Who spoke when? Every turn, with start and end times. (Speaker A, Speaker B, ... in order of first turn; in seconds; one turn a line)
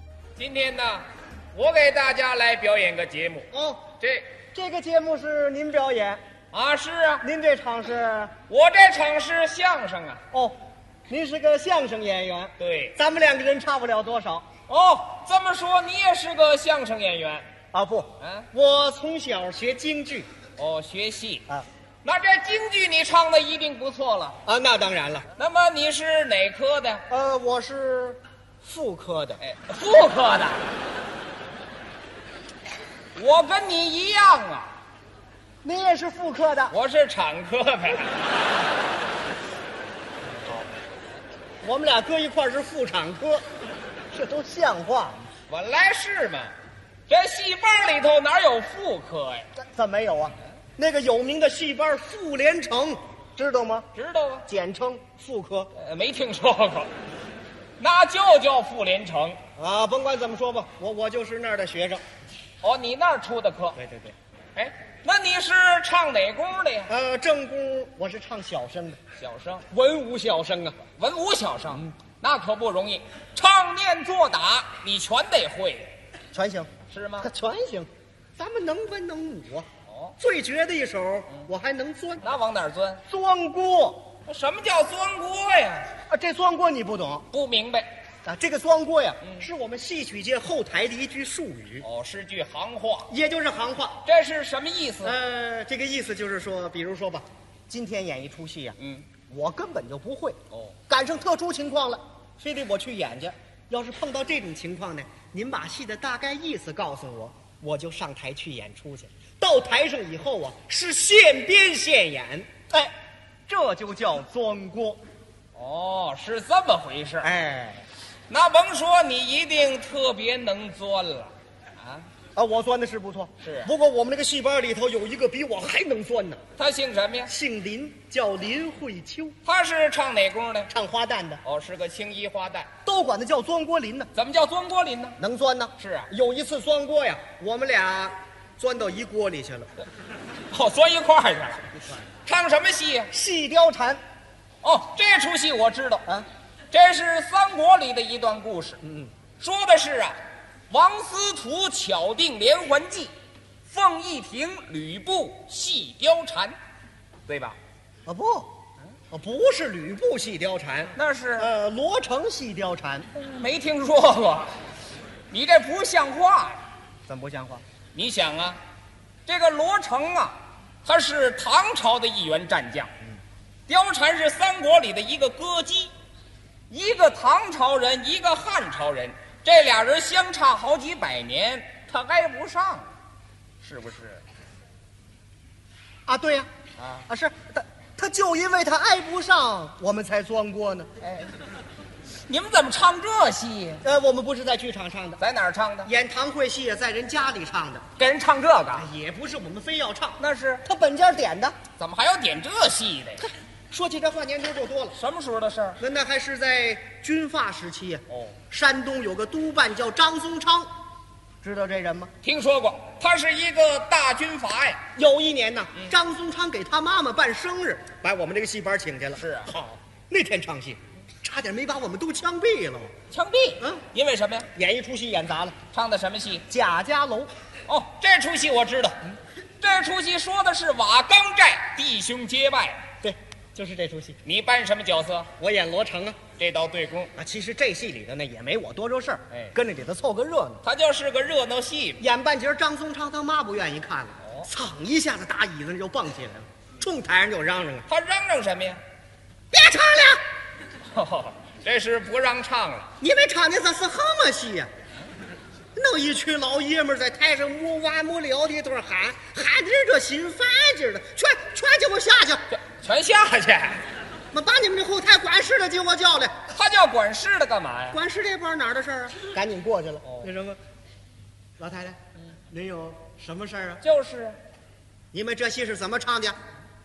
Speaker A: 0.3-3.5
Speaker B: 3.5-3.9
Speaker A: 4.0-4.3
Speaker B: 4.5-6.2
Speaker A: 6.5-7.2
Speaker B: 7.2-8.3
Speaker A: 8.5-10.2
Speaker B: 11.1-14.4
Speaker A: 12.6-13.0
Speaker A: 14.7-17.5
Speaker B: 17.7-20.3
Speaker A: 18.2-18.5
Speaker A: 20.6-21.5
Speaker A: 22.0-24.4
Speaker B: 24.4-25.3
Speaker A: 25.4-27.1
Speaker B: 27.1-30.1
Speaker A: 29.4-30.6
Speaker A: 33.1-34.8
Speaker B: 35.6-36.7
Speaker A: 36.7-38.1
Speaker B: 41.6-43.4
Speaker B: 44.1-45.3
Speaker A: 45.5-46.5
Speaker A: 47.1-49.5
Speaker B: 49.6-53.9
Speaker A: 53.9-54.5
Speaker B: 54.5-55.7
Speaker A: 55.7-56.9
Speaker A: 57.8-59.4
Speaker B: 59.5-62.0
Speaker A: 62.6-63.8
Speaker B: 63.7-64.1
Speaker A: 64.5-66.9
Speaker B: 66.9-69.0
Speaker A: 69.2-69.7
Speaker B: 69.7-70.8
Speaker A: 70.9-75.9
Speaker B: 76.3-79.7
Speaker A: 76.9-77.3
Speaker A: 79.9-80.2
Speaker B: 80.2-82.3
Speaker A: 82.2-83.0
Speaker B: 83.1-84.1
Speaker A: 84.2-85.9
Speaker B: 86.1-87.2
Speaker A: 87.3-87.9
Speaker B: 88.2-91.8
Speaker A: 91.8-93.1
Speaker B: 93.1-94.0
Speaker A: 94.0-95.2
Speaker B: 95.0-98.8
Speaker A: 98.8-99.1
Speaker B: 99.3-100.4
Speaker A: 100.5-100.8
Speaker B: 100.9-112.9
Speaker B: 113.5-115.0
Speaker A: 115.5-117.3
Speaker B: 117.2-117.8
Speaker A: 118.3-122.0
Speaker B: 122.3-126.4
Speaker A: 123.4-123.7
Speaker A: 126.6-127.3
Speaker B: 127.2-129.3
Speaker A: 129.4-130.7
Speaker B: 130.7-131.4
Speaker A: 131.4-132.7
Speaker B: 132.8-134.1
Speaker A: 134.1-135.2
Speaker B: 135.2-139.7
Speaker A: 135.8-136.1
Speaker A: 140.5-141.7
Speaker A: 142.2-143.1
Speaker B: 143.1-144.0
Speaker A: 144.6-146.1
Speaker A: 146.7-148.8
Speaker B: 148.8-149.1
Speaker A: 149.4-150.2
Speaker A: 150.7-153.1
Speaker A: 153.7-156.6
Speaker A: 157.3-157.6
Speaker B: 158.1-158.5
Speaker B: 159.1-163.1
Speaker A: 160.9-161.5
Speaker A: 163.1-164.5
Speaker A: 165.3-166.6
Speaker B: 167.1-167.6
Speaker A: 167.9-168.6
Speaker A: 169.3-172.9
Speaker A: 173.7-175.9
Speaker A: 176.7-182.9
Speaker A: 183.6-184.2
Speaker B: 186.1-186.5
Speaker A: 186.8-187.1
Speaker B: 187.1-190.9
Speaker A: 191.0-191.3
Speaker A: 192.3-193.8
Speaker B: 193.8-195.2
Speaker A: 195.2-195.9
Speaker B: 195.8-197.8
Speaker A: 198.0-198.9
Speaker B: 198.7-201.6
Speaker A: 200.2-200.7
Speaker A: 201.8-203.3
Speaker B: 203.7-205.0
Speaker A: 204.9-205.8
Speaker B: 205.8-210.7
Speaker A: 208.1-208.4
Speaker B: 211.4-212.1
Speaker A: 212.2-214.8
Speaker B: 214.9-222.9
Speaker A: 219.2-219.5
Speaker A: 223.1-224.5
Speaker B: 224.5-225.5
Speaker A: 225.7-226.5
Speaker B: 226.5-227.3
Speaker A: 227.7-232.8
Speaker B: 233.0-234.2
Speaker A: 234.2-235.3
Speaker B: 235.4-236.2
Speaker A: 236.4-237.1
Speaker B: 237.2-240.6
Speaker A: 239.3-239.6
Speaker A: 240.6-242.0
Speaker B: 242.0-247.8
Speaker A: 244.2-244.5
Speaker A: 247.9-248.8
Speaker B: 249.5-250.2
Speaker A: 250.9-252.9
Speaker B: 253.0-254.7
Speaker B: 255.7-262.4
Speaker A: 262.5-263.8
Speaker B: 264.3-266.3
Speaker A: 266.5-268.0
Speaker B: 267.9-270.6
Speaker A: 270.0-270.3
Speaker B: 271.6-272.0
Speaker B: 272.5-273.8
Speaker A: 273.8-274.4
Speaker B: 275.1-276.4